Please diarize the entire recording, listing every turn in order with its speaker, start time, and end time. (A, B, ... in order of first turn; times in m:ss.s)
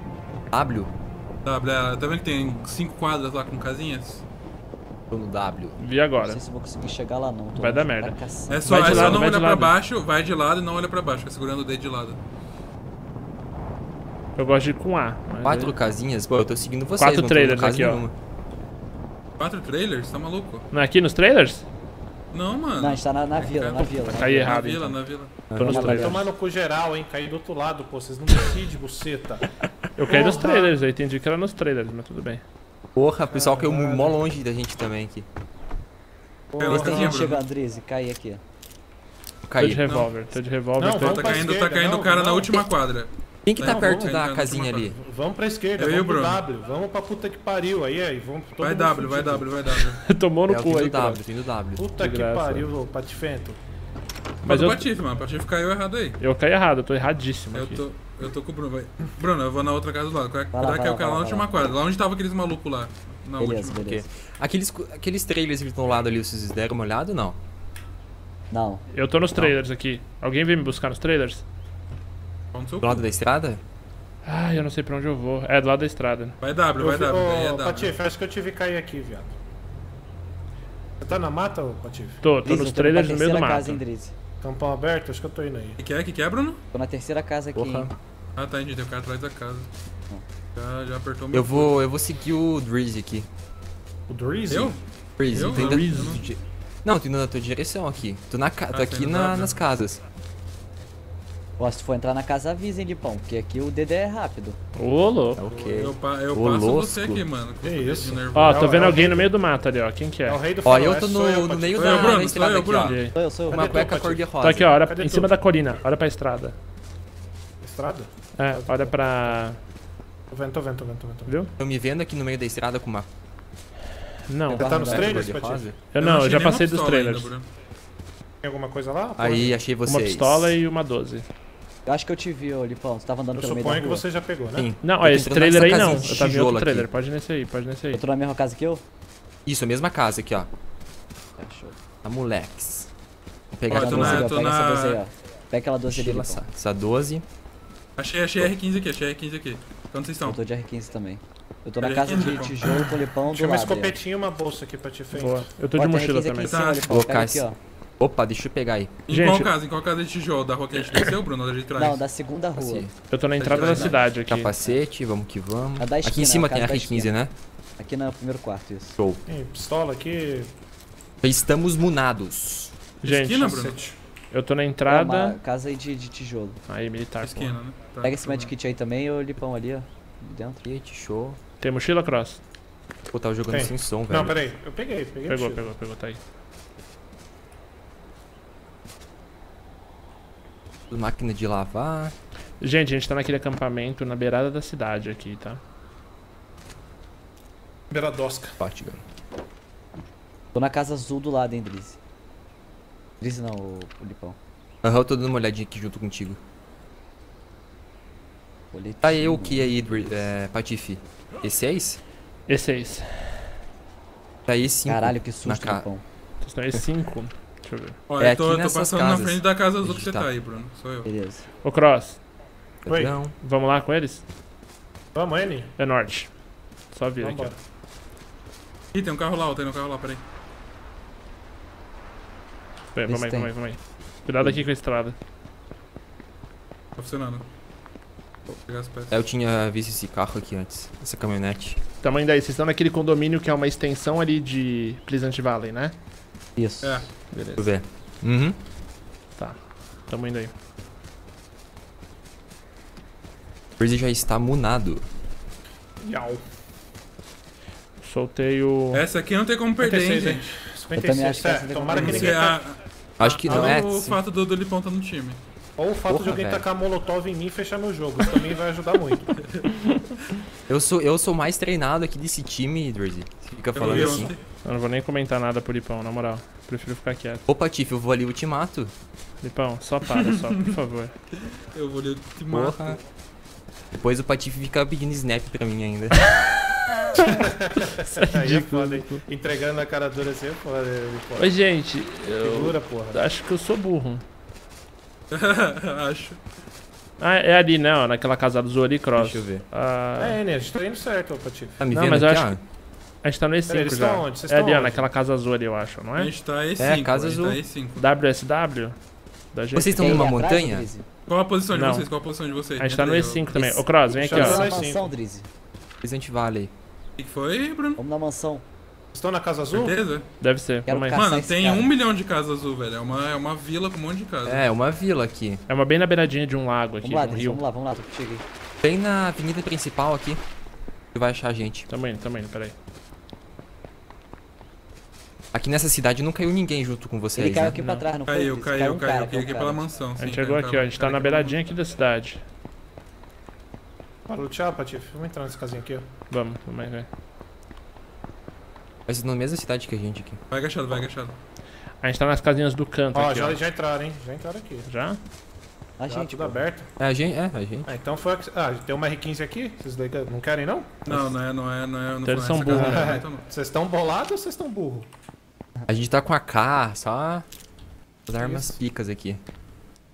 0:00.5-0:00.9 A
0:01.4-0:04.2 B
0:05.1-0:05.8 A
0:05.8-0:06.4 C
0:06.2-0:09.0 D
0:07.6-0:09.7 C
0:08.5-0:12.2 B
0:08.9-0:09.2 A
0:14.4-0:15.7 C
0:15.4-0:18.1 A
0:17.0-0:18.0 C
0:19.4-0:20.7 B
0:20.7-0:21.7 C
0:22.3-0:25.4 B
0:22.8-0:24.9 D
0:24.1-0:25.0 C
0:25.5-0:26.0 A
0:25.5-0:26.3 C
0:25.6-0:26.3 D
0:25.8-0:29.5 E
0:30.0-0:32.4 C
0:30.0-0:30.7 E
0:33.0-0:35.3 A
0:33.3-0:34.2 E
0:36.5-0:37.3 E
0:36.6-0:37.4 B
0:36.6-0:38.4 D
0:39.5-0:39.8 A
0:39.6-0:41.4 C
0:39.9-0:40.1 B
0:40.8-0:42.6 E
0:41.0-0:44.9 B
0:43.4-0:45.0 A
0:43.6-0:44.2 E
0:45.0-0:49.5 E
0:45.8-0:46.4 B
0:48.6-0:50.1 B
0:50.0-0:51.2 C
0:50.5-0:51.9 A
0:51.8-0:53.6 E
0:52.0-0:52.7 C
0:54.4-0:56.2 B
0:54.4-0:54.8 C
0:56.2-0:57.8 C
0:57.5-1:03.8 B
1:00.5-1:01.5 D
1:03.4-1:04.0 D
1:03.8-1:07.4 A
1:08.5-1:08.8 D
1:08.9-1:11.4 C
1:12.5-1:13.0 B
1:12.8-1:13.6 A
1:14.2-1:16.4 C
1:16.4-1:17.9 B
1:16.8-1:19.3 E
1:21.0-1:22.2 E
1:22.2-1:23.8 C
1:22.4-1:24.1 D
1:24.4-1:25.8 E
1:25.8-1:26.6 B
1:26.7-1:27.9 D
1:27.6-1:28.0 A
1:28.4-1:29.7 B
1:30.6-1:31.7 B
1:31.3-1:33.3 A
1:34.1-1:34.8 E
1:34.5-1:36.2 B
1:35.2-1:40.0 A
1:35.3-1:36.2 C
1:38.7-1:39.5 B
1:41.6-1:44.6 D
1:44.8-1:45.4 C
1:45.4-1:47.2 A
1:45.5-1:48.9 B
1:47.6-1:49.3 E
1:48.3-1:50.4 C
1:50.3-1:52.2 E
1:50.6-1:54.7 A
1:51.8-1:53.0 B
1:52.8-1:53.1 C
1:53.1-1:53.8 D
1:53.5-1:55.3 E
1:54.4-1:56.6 C
1:57.6-1:59.3 E
1:58.4-1:59.6 C
2:00.3-2:01.4 E
2:01.3-2:01.5 C
2:01.6-2:03.1 A
2:04.3-2:04.9 C
2:04.5-2:05.7 E
2:04.6-2:05.4 D
2:04.7-2:05.8 A
2:05.9-2:07.3 C
2:06.0-2:07.5 B
2:08.4-2:09.5 E
2:09.2-2:10.6 A
2:09.9-2:11.3 C
2:11.8-2:14.0 D
2:13.4-2:14.7 E
2:14.6-2:16.9 A
2:14.8-2:18.0 C
2:17.9-2:18.8 D
2:19.4-2:20.5 A
2:21.4-2:21.8 D
2:22.0-2:22.9 A
2:23.6-2:24.4 A
2:23.7-2:25.0 B
2:23.7-2:26.4 D
2:25.9-2:27.2 A
2:28.0-2:30.4 B
2:30.2-2:34.0 D
2:31.8-2:32.7 B
2:33.3-2:35.5 E
2:35.1-2:36.6 C
2:35.8-2:37.6 D
2:36.4-2:36.9 B
2:36.9-2:37.4 A
2:38.0-2:38.9 A
2:39.1-2:42.0 B
2:39.1-2:39.5 C
2:41.8-2:42.9 D
2:42.6-2:42.9 A
2:43.1-2:44.5 C
2:43.4-2:44.0 B
2:44.3-2:47.3 A
2:45.8-2:47.1 D
2:47.8-2:49.0 D
2:49.3-2:50.5 E
2:51.2-2:52.7 A
2:53.0-2:53.7 C
2:53.0-2:53.8 B
2:53.4-2:54.0 E
2:54.3-2:55.4 C
2:54.9-2:56.6 D
2:56.7-2:57.6 C
2:57.2-2:58.5 B
2:58.0-3:00.6 D
3:00.6-3:01.4 A
3:01.6-3:02.4 C
3:03.1-3:04.4 A
3:03.5-3:05.7 E
3:05.3-3:06.2 C
3:10.9-3:12.1 A
3:12.6-3:15.6 C
3:17.9-3:18.6 E
3:18.6-3:19.0 A
3:20.5-3:22.0 D
3:23.2-3:24.4 D
3:24.8-3:26.4 A
3:28.7-3:29.9 D
3:29.0-3:32.0 A
3:32.5-3:33.4 C
3:34.5-3:35.9 A
3:34.9-3:36.0 D
3:36.4-3:38.0 C
3:38.1-3:41.1 B
3:38.2-3:40.3 A
3:41.0-3:41.5 D
3:41.6-3:42.2 C
3:42.8-3:43.3 A
3:42.9-3:43.1 E
3:43.3-3:44.2 C
3:45.1-3:45.7 E
3:45.8-3:46.4 C
3:46.9-3:47.5 C
3:47.2-3:47.6 E
3:48.9-3:50.2 B
3:52.9-3:55.2 C
3:53.1-3:53.5 D
3:57.0-3:57.4 B
3:58.7-3:59.2 B
3:59.1-4:01.8 A
4:02.0-4:05.9 C
4:06.6-4:07.0 D
4:06.8-4:07.1 B
4:07.3-4:07.7 C
4:07.6-4:08.6 A
4:09.4-4:10.5 C
4:13.8-4:15.1 A
4:16.0-4:16.4 E
4:18.0-4:19.0 C
4:18.9-4:20.5 B
4:19.8-4:22.6 E
4:20.9-4:22.5 D
4:21.9-4:25.4 B
4:23.2-4:24.2 A
4:23.5-4:23.8 E
4:25.8-4:29.4 E
4:26.1-4:26.6 A
4:30.7-4:34.3 A
4:33.8-4:34.4 B
4:34.6-4:37.4 C
4:37.5-4:38.9 A
4:39.4-4:41.1 C
4:40.1-4:40.7 B
4:41.4-4:43.0 B
4:42.5-4:43.0 A
4:43.9-4:46.4 A
4:47.2-4:51.5 E
4:48.0-4:49.2 C
4:51.4-4:54.2 C
4:52.4-4:53.2 E
4:55.3-4:56.4 B
4:57.2-5:00.4 C
4:59.2-4:59.6 A
5:00.2-5:01.8 E
5:01.8-5:02.6 A
5:01.9-5:02.6 C
5:03.2-5:06.3 C
5:03.7-5:05.1 E
5:06.2-5:08.0 B
5:06.8-5:07.6 A
5:08.0-5:09.0 C
5:09.5-5:10.4 C
5:09.7-5:10.9 A
5:10.0-5:11.0 D
5:11.3-5:13.8 B
5:11.7-5:12.1 C
5:12.8-5:14.7 C
5:14.1-5:15.1 E
5:14.3-5:15.5 D
5:16.0-5:16.7 A
5:17.2-5:18.0 B
5:18.0-5:18.6 D
5:19.1-5:20.0 E
5:19.7-5:20.3 B
5:20.4-5:21.2 C
5:20.9-5:21.9 D
5:21.1-5:24.6 B
5:24.4-5:25.6 A
5:25.7-5:27.6 C
5:27.0-5:28.4 D
5:28.8-5:30.4 A
5:31.1-5:31.9 A
5:31.9-5:32.7 C
5:35.5-5:37.8 A
5:37.4-5:39.8 D
5:37.8-5:38.0 C
5:38.3-5:41.6 B
5:40.2-5:42.4 C
5:44.3-5:46.0 E
5:46.3-5:47.1 C
5:49.1-5:50.4 A
5:50.5-5:51.4 B
5:52.0-5:53.6 C
5:53.1-5:54.9 E
5:54.9-5:55.2 C
5:56.0-5:56.6 D
5:56.1-5:56.9 E
5:57.0-5:57.9 A
5:57.9-6:01.0 E
6:01.1-6:03.4 B
6:02.2-6:03.2 C
6:02.7-6:05.1 E
6:05.9-6:07.5 A
6:08.3-6:09.4 A
6:08.4-6:08.8 E